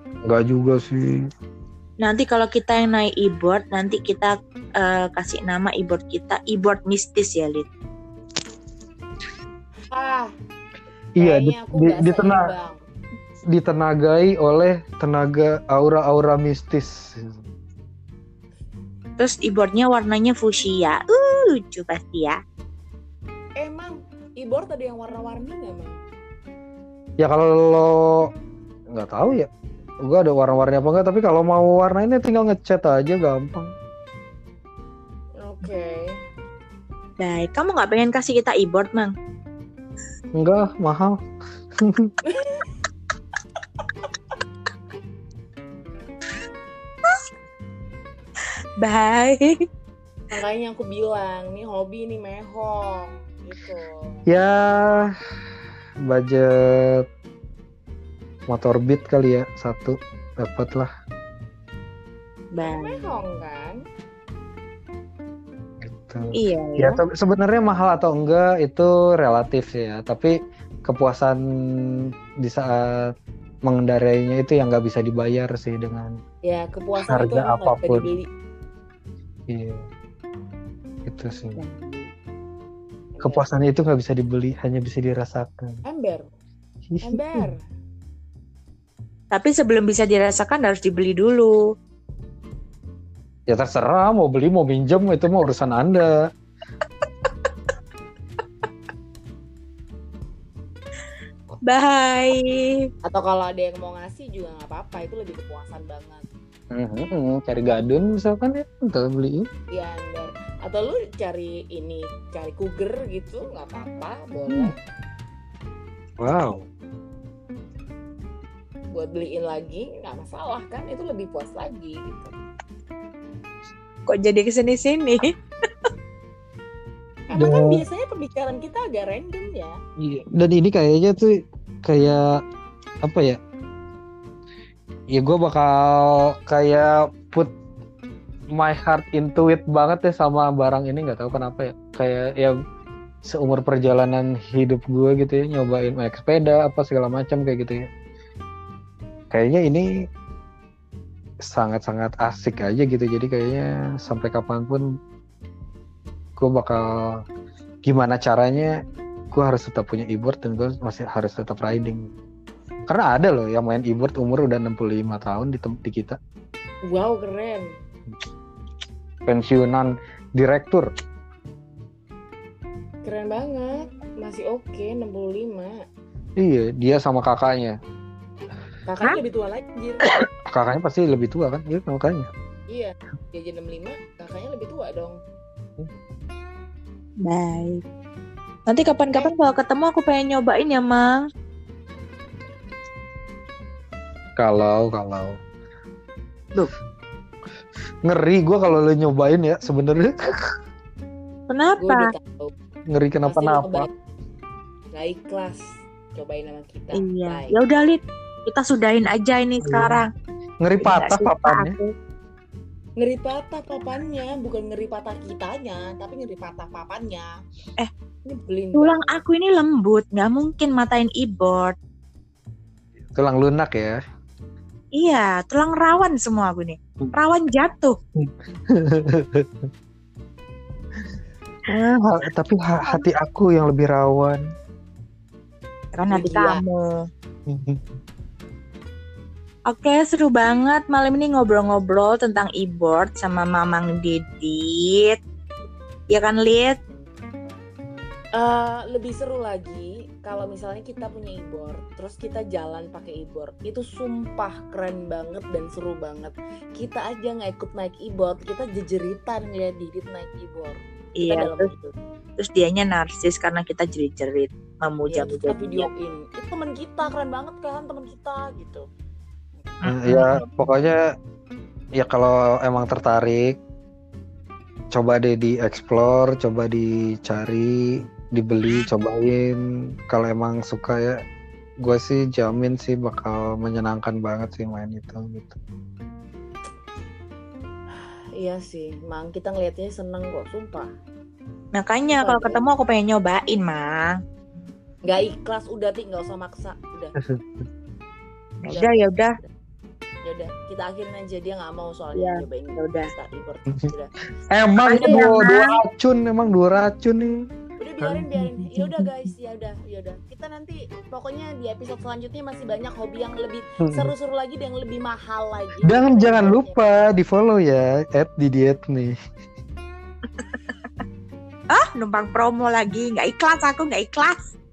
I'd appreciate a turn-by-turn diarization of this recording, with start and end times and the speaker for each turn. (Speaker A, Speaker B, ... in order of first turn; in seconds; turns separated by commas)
Speaker A: 0.3-1.2, Speaker B: 2.0-7.7, Speaker C: 9.9-10.3, Speaker A: 11.2-12.5, Speaker C: 11.2-12.8, Speaker A: 13.5-17.3, Speaker B: 19.2-22.4, Speaker C: 23.6-25.9, Speaker A: 27.2-28.3, Speaker A: 28.9-29.5, Speaker A: 30.1-33.7, Speaker C: 35.4-36.1, Speaker B: 37.2-39.1, Speaker A: 40.4-41.2, Speaker A: 41.8-42.1, Speaker C: 42.3-42.6, Speaker B: 48.8-49.6, Speaker C: 50.3-54.3, Speaker A: 54.3-55.1, Speaker A: 56.1-57.1, Speaker A: 58.5-60.9, Speaker B: 62.5-63.1, Speaker C: 62.6-63.8, Speaker A: 65.8-70.3, Speaker B: 66.3-67.0, Speaker A: 70.9-71.4, Speaker A: 72.4-73.1, Speaker A: 73.7-76.1, Speaker C: 76.5-78.3, Speaker A: 77.1-78.1, Speaker A: 79.5-79.8, Speaker A: 81.1-81.6, Speaker B: 81.6-82.0, Speaker C: 83.2-83.5, Speaker A: 83.2-85.8, Speaker C: 85.9-86.3, Speaker A: 86.9-87.5, Speaker C: 87.0-87.6, Speaker B: 89.3-91.6, Speaker A: 93.5-96.1, Speaker B: 101.7-102.9, Speaker C: 103.0-106.2, Speaker A: 106.7-109.5, Speaker C: 109.7-114.8, Speaker A: 116.2-116.6, Speaker C: 118.9-122.3, Speaker B: 124.1-125.3, Speaker C: 127.3-129.8, Speaker A: 127.3-127.8, Speaker A: 130.0-132.2, Speaker A: 133.0-133.4, Speaker A: 135.1-137.5, Speaker A: 138.6-142.6, Speaker A: 143.3-147.8, Speaker A: 149.3-149.9, Speaker A: 151.5-154.8, Speaker A: 156.4-157.2, Speaker A: 157.8-158.7, Speaker A: 159.3-162.1, Speaker A: 162.9-166.2, Speaker C: 166.9-167.7, Speaker A: 169.3-170.9, Speaker C: 173.0-175.8, Speaker A: 176.4-177.8, Speaker C: 178.9-180.1, Speaker A: 180.1-182.3, Speaker C: 182.7-185.2, Speaker B: 187.2-187.8, Speaker B: 188.7-191.2, Speaker A: 194.4-195.4, Speaker A: 198.1-200.5, Speaker B: 201.5-202.1, Speaker C: 201.8-202.5, Speaker A: 202.9-203.9, Speaker C: 203.3-203.9, Speaker C: 204.9-205.6, Speaker C: 206.1-207.6, Speaker B: 207.0-210.1, Speaker A: 209.6-210.0, Speaker A: 210.6-211.8, Speaker B: 210.8-211.9, Speaker C: 213.0-217.3, Speaker C: 218.3-219.2, Speaker B: 218.7-221.8, Speaker A: 223.1-224.0, Speaker B: 225.0-228.0, Speaker A: 228.2-229.7, Speaker A: 231.7-234.4, Speaker B: 236.0-236.9, Speaker C: 236.1-236.6, Speaker A: 237.5-237.8, Speaker B: 239.7-245.2, Speaker B: 246.1-246.8, Speaker C: 248.3-261.9, Speaker B: 261.2-261.7, Speaker B: 262.4-265.9, Speaker C: 265.1-268.9, Speaker B: 269.8-270.5, Speaker A: 269.9-271.1, Speaker A: 272.0-273.5, Speaker A: 274.9-281.2, Speaker A: 281.8-285.6, Speaker C: 288.0-290.9, Speaker B: 291.8-294.2, Speaker C: 292.1-292.7, Speaker C: 295.1-297.1, Speaker A: 297.2-297.6, Speaker B: 298.6-299.3, Speaker C: 298.7-299.5, Speaker C: 300.2-304.2, Speaker B: 302.2-303.1, Speaker A: 304.5-307.4, Speaker C: 304.9-305.5, Speaker B: 304.9-305.7, Speaker C: 307.8-316.8, Speaker A: 308.0-309.1, Speaker A: 313.9-314.1, Speaker A: 315.9-319.1, Speaker B: 321.7-324.4